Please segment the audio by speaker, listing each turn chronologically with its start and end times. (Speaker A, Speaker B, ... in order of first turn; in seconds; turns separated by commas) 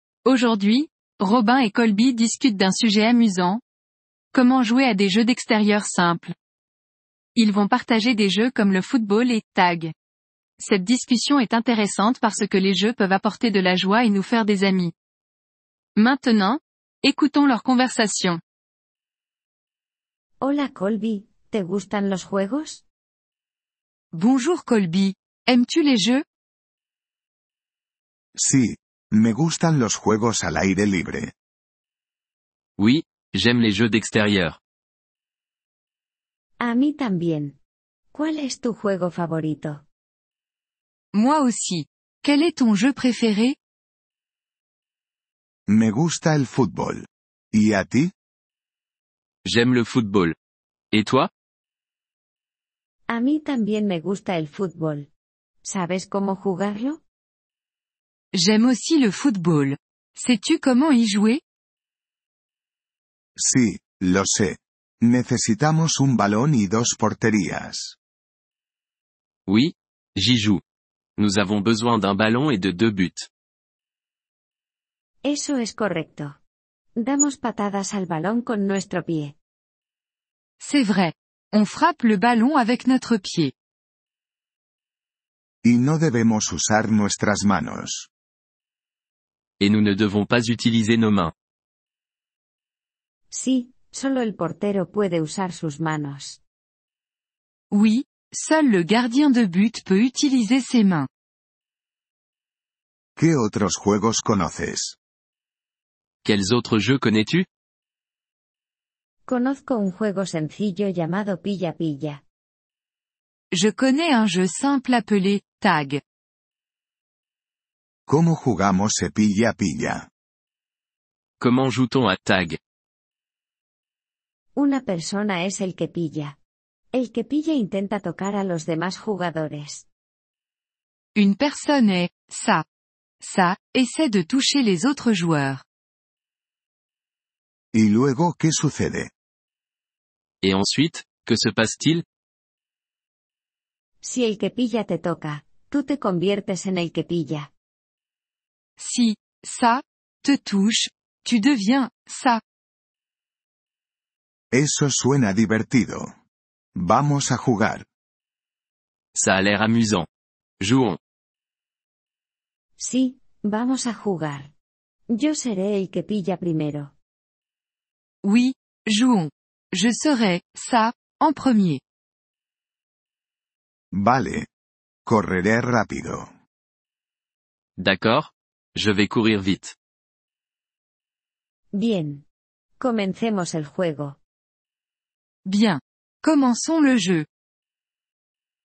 Speaker A: 0.2-3.6, Speaker A: 4.3-6.3, Speaker A: 7.3-9.9, Speaker A: 10.6-14.9, Speaker A: 15.9-18.4, Speaker B: 20.4-22.8, Speaker A: 24.1-26.2, Speaker C: 28.3-31.3, Speaker D: 32.8-34.6, Speaker B: 36.6-37.5, Speaker B: 38.1-39.8, Speaker A: 41.1-43.5, Speaker C: 45.7-48.1, Speaker D: 49.4-50.4, Speaker D: 50.9-51.3, Speaker B: 53.1-55.1, Speaker B: 55.6-57.0, Speaker A: 58.3-61.4, Speaker C: 63.4-68.0, Speaker D: 69.5-70.6, Speaker D: 71.2-73.3, Speaker B: 75.2-76.4, Speaker B: 77.0-79.3, Speaker A: 80.6-83.5, Speaker C: 85.6-88.1, Speaker D: 89.6-91.3, Speaker B: 93.3-96.4, Speaker A: 97.7-101.1, Speaker C: 103.2-105.0, Speaker D: 106.2-107.5, Speaker B: 109.3-112.2, Speaker A: 113.5-116.0, Speaker C: 118.1-120.1, Speaker D: 121.4-122.6, Speaker B: 124.5-126.3, Speaker B: 126.9-129.8, Speaker A: 131.1-132.6, Speaker A: 133.2-135.6, Speaker C: 137.7-139.1, Speaker D: 140.4-142.0, Speaker B: 144.0-147.5, Speaker A: 148.8-152.4, Speaker C: 154.5-156.1, Speaker C: 156.7-157.8, Speaker D: 159.1-160.1, Speaker D: 160.6-161.0, Speaker B: 162.8-164.5, Speaker B: 165.1-166.9, Speaker A: 168.2-171.8, Speaker C: 173.9-174.5, Speaker C: 175.1-176.3, Speaker D: 177.8-179.7, Speaker B: 181.7-182.2, Speaker B: 182.8-184.2, Speaker A: 185.4-187.2